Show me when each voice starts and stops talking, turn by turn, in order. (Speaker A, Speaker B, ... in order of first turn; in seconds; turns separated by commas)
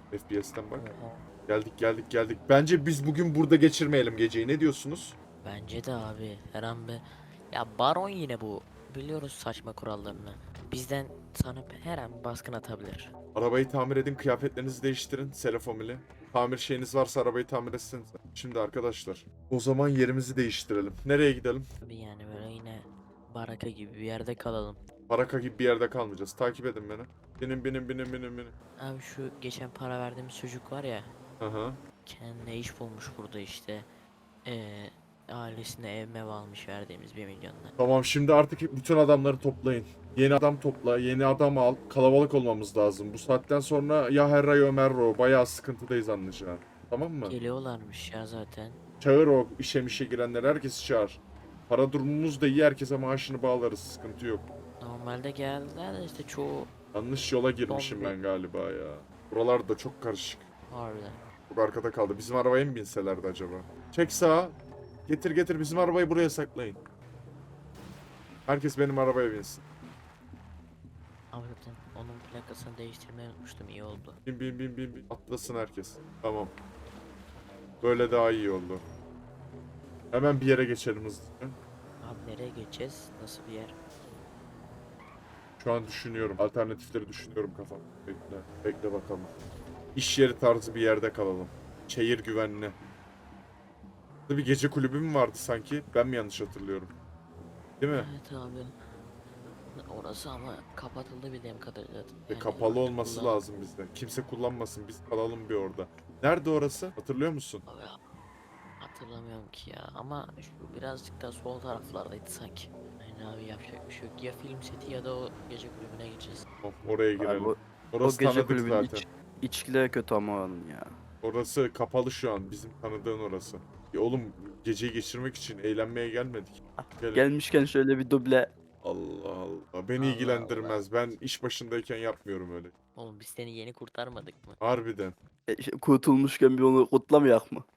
Speaker A: 0.1-0.9, Speaker B: 0.8-1.2, Speaker A: 1.5-5.2, Speaker B: 5.4-13.1, Speaker A: 13.3-21.7, Speaker B: 21.8-24.8, Speaker A: 25.1-28.5, Speaker B: 28.8-31.1, Speaker A: 31.4-31.8, Speaker B: 32.0-33.9, Speaker B: 34.5-37.7, Speaker A: 37.8-47.4, Speaker B: 47.2-48.8, Speaker A: 49.0-54.5, Speaker B: 54.8-56.7, Speaker A: 56.9-60.4, Speaker B: 57.7-58.2, Speaker B: 60.7-61.2, Speaker A: 61.5-64.6, Speaker A: 65.1-66.8, Speaker A: 68.5-69.6, Speaker B: 71.3-74.2, Speaker A: 74.2-76.5, Speaker A: 77.8-78.8, Speaker A: 80.1-81.6, Speaker B: 82.0-83.7, Speaker A: 85.6-89.3, Speaker A: 90.0-92.8, Speaker A: 94.3-96.9, Speaker A: 97.8-98.1, Speaker B: 97.9-98.7, Speaker B: 99.7-103.4, Speaker A: 102.3-107.6, Speaker B: 107.7-108.0, Speaker B: 108.8-116.5, Speaker A: 116.6-119.1, Speaker C: 117.2-121.0, Speaker A: 121.2-127.3, Speaker C: 126.8-128.5, Speaker A: 128.8-132.7, Speaker B: 130.0-130.8, Speaker B: 133.0-134.6, Speaker A: 134.6-135.2, Speaker C: 135.5-137.7